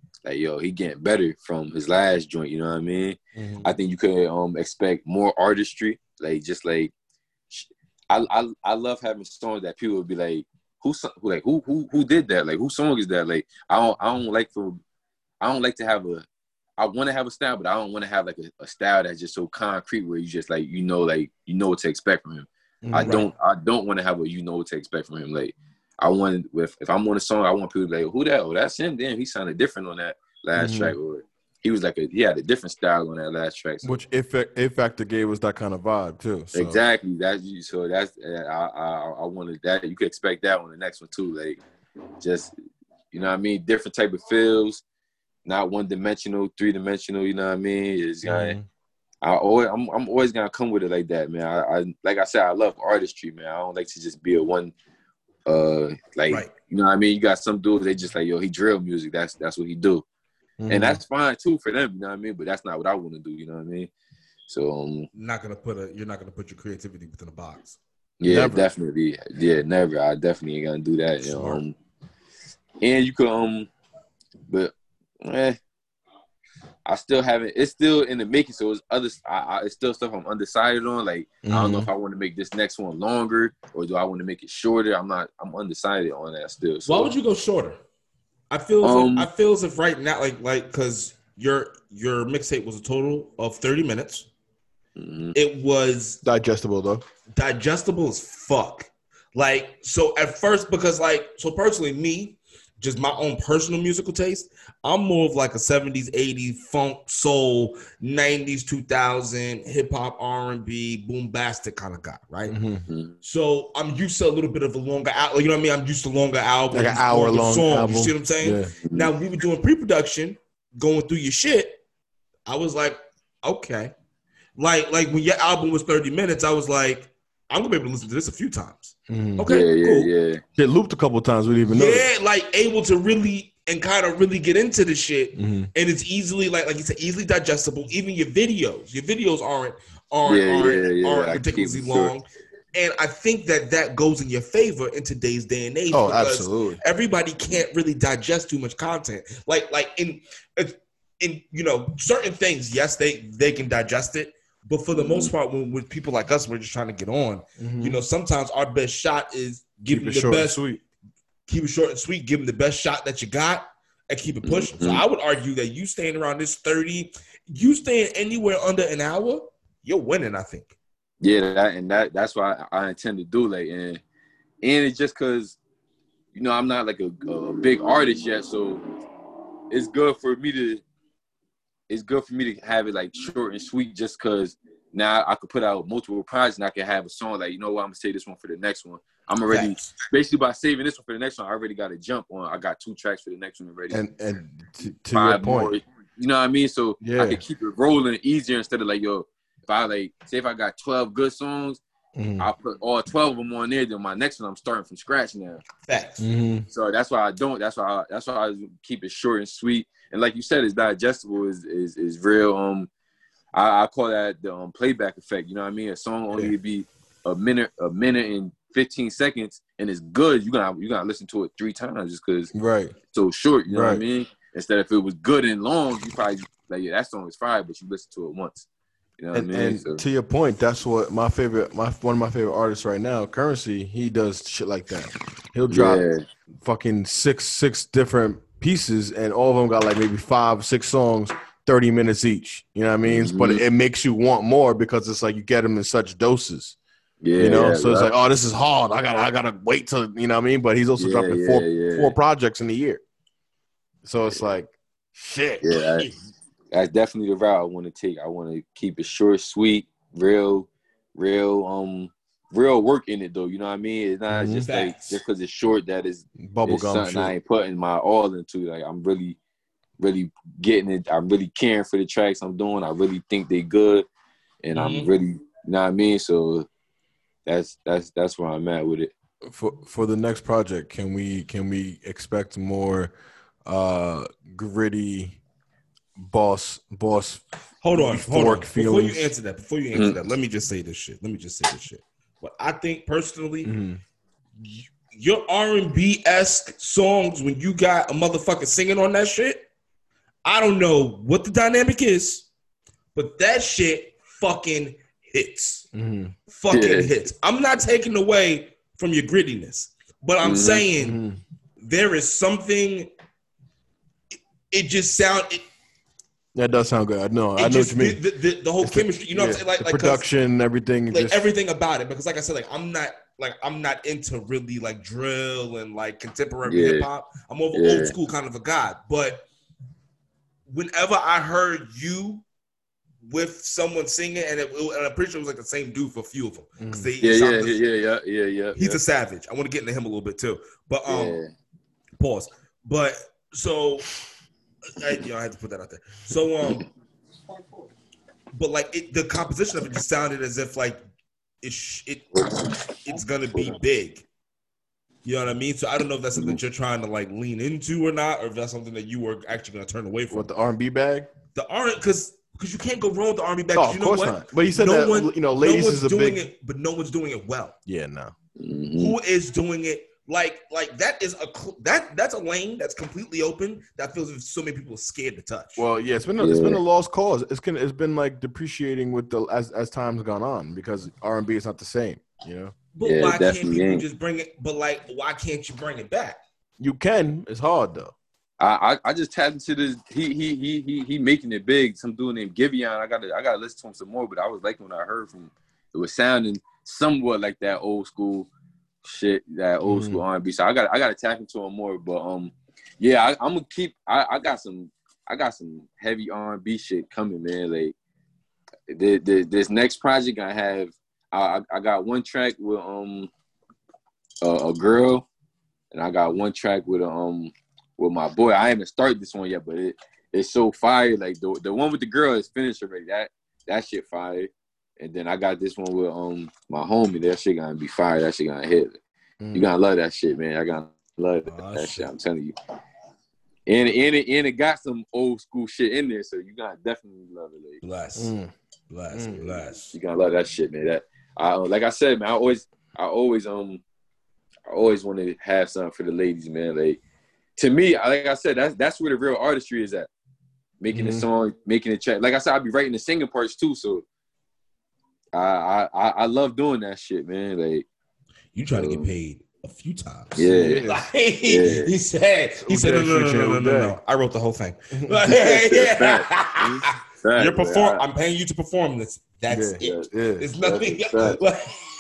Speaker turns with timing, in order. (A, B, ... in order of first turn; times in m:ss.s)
0:00.2-0:06.9 A
0:03.4-0:03.7 B
0:07.5-0:14.8 A
0:15.4-0:16.2 A
0:16.8-0:34.0 A
0:22.8-0:23.3 B
0:30.6-0:31.0 B
0:33.8-0:36.8 B
0:36.5-0:41.6 A
0:42.2-0:42.5 A
0:43.1-0:44.8 A
0:45.4-0:48.6 A
0:48.2-0:48.6 B
0:49.2-0:54.7 A
0:55.4-1:00.0 A
1:00.6-1:01.0 B
1:00.7-1:03.9 A
1:04.5-1:05.1 A
1:05.1-1:07.8 C
1:08.2-1:11.8 A
1:08.2-1:08.7 B
1:11.3-1:11.6 B
1:12.8-1:13.7 A
1:14.5-1:15.6 A
1:16.8-1:27.1 A
1:21.4-1:21.9 B
1:26.8-1:27.8 C
1:28.5-1:34.3 C
1:28.8-1:29.3 A
1:35.0-1:35.4 A
1:35.3-1:36.2 C
1:36.2-1:37.0 B
1:37.3-1:52.6 C
1:52.5-1:52.8 B
1:52.9-1:53.1 A
1:53.2-2:01.8 C
1:56.7-1:58.7 B
1:58.8-1:59.1 A
2:02.4-2:03.9 C
2:04.6-2:10.1 C
2:09.1-2:09.5 B
2:09.4-2:10.4 A
2:10.6-2:12.1 B
2:11.7-2:40.6 C
2:15.4-2:15.7 B
2:20.2-2:22.1 A
2:25.9-2:26.8 B
2:34.9-2:35.3 A
2:37.6-2:38.0 B
2:39.9-2:40.8 B
2:41.5-2:50.7 C
2:44.4-2:45.0 A
2:51.2-2:54.0 A
2:54.6-2:55.6 A
2:56.3-2:58.8 A
2:59.7-3:00.8 A
3:01.9-3:14.0 A
3:09.5-3:09.9 C
3:13.9-3:15.7 B
3:15.1-3:21.8 A
3:17.0-3:17.4 B
3:22.2-3:22.5 B
3:22.4-3:25.6 A
3:25.8-3:26.3 C
3:26.2-3:26.7 B
3:26.7-3:32.9 A
3:33.5-3:42.5 A
3:42.5-3:42.9 B
3:43.1-3:48.6 A
3:43.7-3:44.0 B
3:49.2-3:50.0 A
3:49.3-3:56.0 B
3:55.7-3:56.2 A
3:56.6-4:06.8 B
4:03.0-4:03.6 A
4:07.2-4:08.1 A
4:07.4-4:13.0 B
4:11.0-4:12.1 A
4:14.0-4:16.0 B
4:15.6-4:16.1 A
4:16.7-4:29.4 A
4:24.3-4:24.7 B
4:24.6-4:25.2 C
4:26.4-4:27.3 B
4:30.0-4:34.0 A
4:34.6-4:36.7 A
4:34.7-4:35.1 C
4:37.4-4:39.1 A
4:39.4-4:43.1 B
4:43.6-4:45.4 B
4:46.2-4:49.3 B
4:47.8-4:53.7 C
4:49.9-4:50.2 A
4:53.6-4:54.0 B
4:54.6-4:59.6 C
5:00.4-5:02.5 C
5:03.1-5:05.9 C
5:05.9-5:06.3 B
5:06.5-5:11.2 C
5:06.7-5:07.1 A
5:10.4-5:10.9 A
5:11.0-5:11.4 B
5:11.8-5:13.1 C
5:14.7-5:15.6 C
5:16.5-5:18.2 B
5:17.6-5:20.2 C
5:18.8-5:21.4 B
5:21.1-5:29.4 C
5:26.6-5:27.1 A
5:27.7-5:28.1 A
5:30.7-5:32.4 C
5:33.2-5:37.8 C
5:36.8-5:37.1 B
5:37.2-5:39.0 A
5:38.7-5:41.4 C
5:41.1-5:41.5 A
5:42.2-5:44.1 C
5:44.9-5:46.8 C
5:48.5-5:51.0 C
5:51.6-5:54.2 C
5:52.3-5:52.7 A
5:55.2-6:00.5 C
6:00.3-6:01.3 B
6:01.5-6:07.8 C
6:03.7-6:06.4 B
6:07.9-6:08.3 B
6:08.6-6:09.2 A
6:09.0-6:15.8 C
6:15.8-6:22.7 B
6:16.4-6:16.8 A
6:22.9-6:26.4 C
6:23.0-6:24.0 A
6:26.8-6:28.1 B
6:28.6-6:38.5 A
6:39.0-6:47.9 A
6:39.8-6:40.2 B
6:48.9-6:53.3 A
6:54.4-6:55.2 A
6:55.9-7:09.0 A
7:09.4-7:09.7 B
7:09.5-7:12.5 A
7:11.4-7:12.1 C
7:13.7-7:17.8 A
7:17.8-7:18.3 C
7:18.2-7:18.5 B
7:18.9-7:19.9 C
7:19.1-7:19.5 B
7:19.9-7:23.8 A
7:24.7-7:27.0 A
7:27.6-7:30.1 A
7:30.8-7:34.0 A
7:30.9-7:31.2 B
7:35.3-7:37.8 A
7:38.5-7:51.8 C
7:38.7-7:39.1 A
7:40.4-7:40.8 A
7:40.5-7:41.1 B
7:41.4-7:41.9 A
7:42.6-7:44.0 B
7:45.3-7:48.0 A
7:49.5-7:50.5 B
7:49.8-7:51.4 A